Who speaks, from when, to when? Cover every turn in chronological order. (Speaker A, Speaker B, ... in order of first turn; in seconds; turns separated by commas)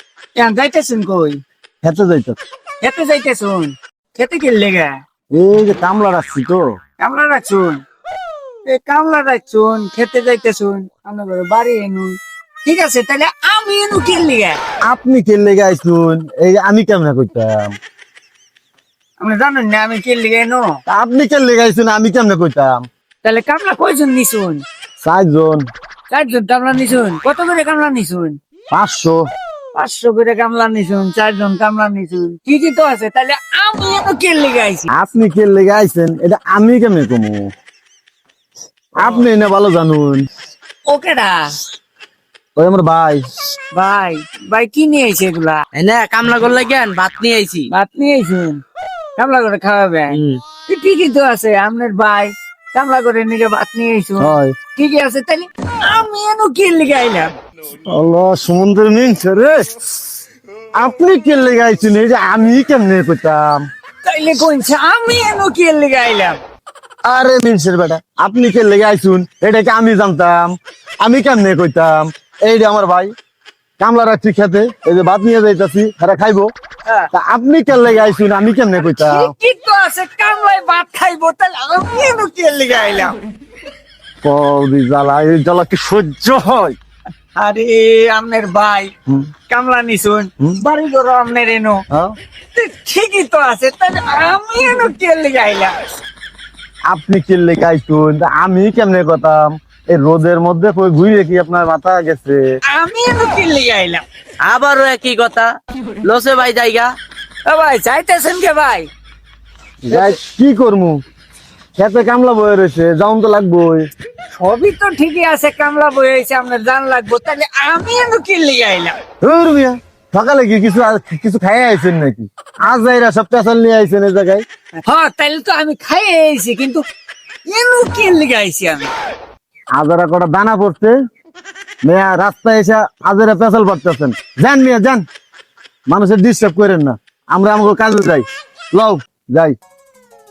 Speaker A: 0.4-1.4, Speaker B: 1.8-2.4, Speaker A: 2.8-5.0, Speaker B: 5.3-6.7, Speaker A: 7.0-7.8, Speaker A: 8.7-14.6, Speaker B: 14.8-17.7, Speaker A: 19.2-20.7, Speaker B: 20.9-22.8, Speaker A: 23.2-24.6, Speaker B: 25.0-25.7, Speaker A: 26.1-28.4, Speaker B: 28.7-29.2, Speaker A: 29.8-34.9, Speaker B: 34.9-37.4, Speaker B: 39.0-40.2, Speaker A: 40.9-41.5, Speaker B: 42.5-43.2, Speaker A: 43.8-45.6, Speaker C: 45.7-47.7, Speaker A: 47.7-48.6, Speaker A: 49.2-57.3, Speaker C: 50.1-50.4, Speaker B: 54.2-54.5, Speaker B: 57.7-59.8, Speaker B: 60.7-63.6, Speaker A: 64.0-66.4, Speaker B: 67.0-73.1, Speaker B: 73.8-76.5, Speaker B: 77.1-79.3, Speaker A: 78.8-83.2, Speaker B: 84.2-86.8, Speaker A: 87.3-88.9, Speaker A: 89.5-91.8, Speaker A: 92.5-95.7, Speaker B: 96.9-102.4, Speaker A: 102.7-104.0, Speaker C: 104.4-105.5, Speaker C: 106.0-106.9, Speaker A: 107.5-108.9, Speaker B: 109.8-111.0, Speaker B: 111.8-113.9, Speaker A: 114.3-118.9, Speaker B: 119.2-124.4, Speaker A: 124.8-126.8, Speaker A: 127.5-128.9, Speaker B: 129.8-130.9, Speaker B: 131.8-135.0, Speaker B: 135.9-139.6